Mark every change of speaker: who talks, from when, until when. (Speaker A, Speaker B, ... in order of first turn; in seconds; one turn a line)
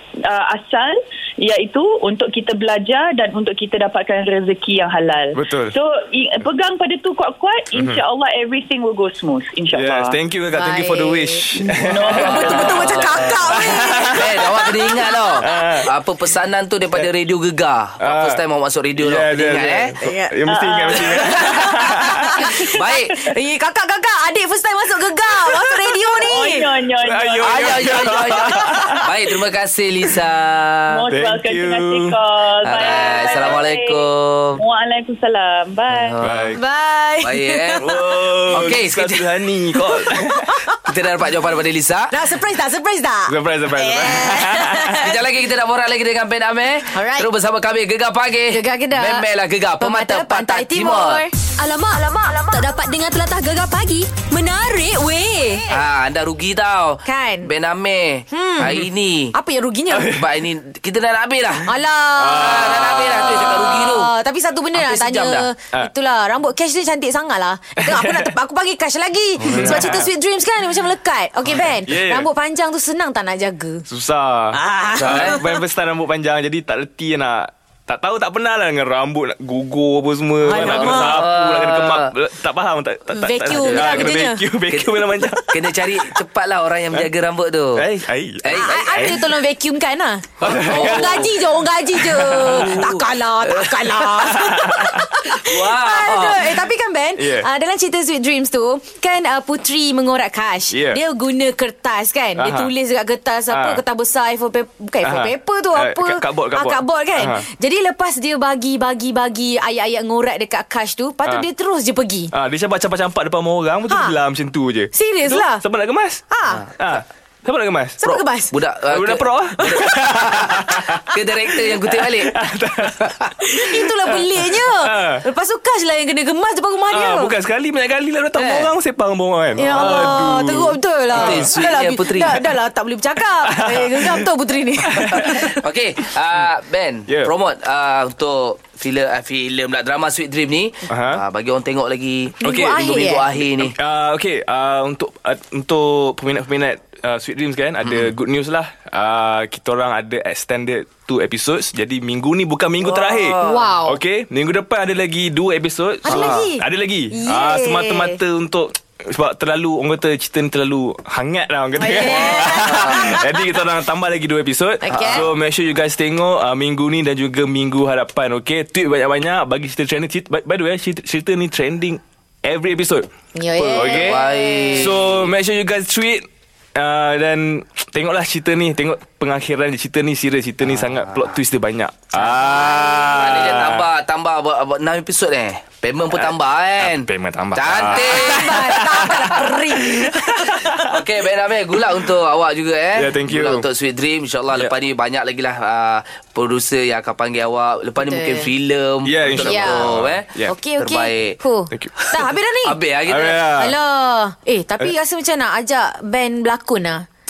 Speaker A: 0.3-10.2
Speaker B: 5.3-5.7
Speaker B: 7.7-8.0
Speaker B: 9.7-14.6
Speaker C: 10.5-11.5
Speaker A: 11.8-13.0
Speaker C: 12.1-15.8
Speaker D: 12.1-19.9
Speaker B: 15.4-15.9
Speaker B: 18.0-18.4
Speaker B: 19.0-22.5
Speaker C: 20.0-20.4
Speaker A: 20.5-21.5
Speaker D: 21.2-21.8
Speaker C: 21.6-26.7
Speaker D: 22.6-23.1
Speaker A: 26.2-27.8
Speaker B: 27.0-29.1
Speaker D: 27.4-30.9
Speaker C: 28.5-29.0
Speaker A: 30.9-34.0
Speaker B: 31.1-32.2
Speaker D: 32.6-34.6
Speaker A: 34.6-36.1
Speaker D: 35.9-36.6
Speaker B: 36.2-36.6
Speaker C: 36.5-38.0
Speaker D: 37.2-39.4
Speaker B: 37.8-40.6
Speaker C: 39.9-40.8
Speaker D: 40.9-42.1
Speaker C: 42.1-45.1
Speaker B: 43.3-45.0
Speaker D: 45.0-51.2
Speaker C: 46.9-47.3
Speaker C: 48.5-49.2
Speaker C: 49.8-51.3
Speaker E: 51.6-55.7
Speaker D: 55.7-59.4
Speaker C: 57.0-57.5
Speaker C: 58.3-60.2
Speaker B: 59.9-60.2
Speaker D: 60.1-61.7
Speaker C: 61.6-62.8
Speaker B: 62.2-64.0
Speaker D: 62.2-64.1
Speaker C: 63.4-73.9
Speaker D: 64.7-65.5
Speaker B: 67.8-68.3
Speaker D: 69.4-70.0
Speaker B: 69.4-70.1
Speaker B: 71.5-72.3
Speaker B: 73.9-85.5
Speaker C: 74.5-75.6
Speaker D: 75.0-75.4
Speaker C: 80.5-81.3
Speaker D: 80.5-82.1
Speaker C: 83.1-84.4
Speaker D: 83.5-84.1
Speaker D: 84.7-85.0
Speaker C: 85.2-85.5
Speaker D: 85.5-87.9
Speaker B: 87.8-88.7
Speaker D: 88.4-89.2
Speaker C: 88.5-112.3
Speaker D: 90.4-91.3
Speaker B: 90.4-91.2
Speaker B: 91.9-92.9
Speaker D: 92.1-94.3
Speaker B: 94.2-95.1
Speaker D: 95.4-96.6
Speaker B: 97.2-97.5
Speaker B: 100.7-101.0
Speaker B: 102.4-102.7
Speaker B: 103.5-103.8
Speaker B: 105.0-107.5
Speaker B: 112.3-116.2
Speaker C: 113.9-114.2
Speaker C: 114.9-115.6
Speaker C: 116.3-116.6
Speaker B: 116.8-118.0
Speaker C: 118.0-118.5
Speaker D: 118.0-122.4
Speaker B: 118.9-121.0
Speaker C: 119.6-119.9
Speaker B: 121.6-125.2
Speaker C: 123.4-127.3
Speaker B: 126.9-131.5
Speaker D: 128.3-128.7
Speaker C: 129.6-135.6
Speaker D: 129.7-130.6
Speaker D: 131.1-132.4
Speaker B: 133.4-134.3
Speaker B: 134.9-135.4
Speaker D: 135.0-143.8
Speaker B: 140.9-141.2
Speaker C: 142.4-143.3
Speaker B: 142.4-142.8
Speaker B: 143.6-173.1
Speaker D: 147.8-148.1
Speaker D: 152.8-153.8
Speaker C: 153.4-154.0
Speaker C: 156.1-158.2
Speaker D: 156.1-156.4
Speaker C: 161.8-163.3
Speaker D: 162.1-163.2
Speaker C: 164.8-165.3
Speaker D: 164.9-165.3
Speaker C: 173.3-175.0
Speaker D: 173.6-175.3
Speaker B: 173.7-183.9
Speaker D: 180.6-181.3
Speaker C: 182.2-183.2
Speaker D: 183.0-189.4
Speaker B: 186.1-190.8
Speaker C: 187.9-190.6
Speaker D: 190.9-201.4
Speaker B: 192.9-193.7
Speaker C: 198.0-198.5
Speaker B: 199.0-200.6
Speaker C: 199.4-199.9
Speaker C: 200.5-202.8
Speaker B: 201.7-202.0
Speaker D: 202.6-203.5
Speaker B: 203.1-203.8
Speaker C: 203.6-207.0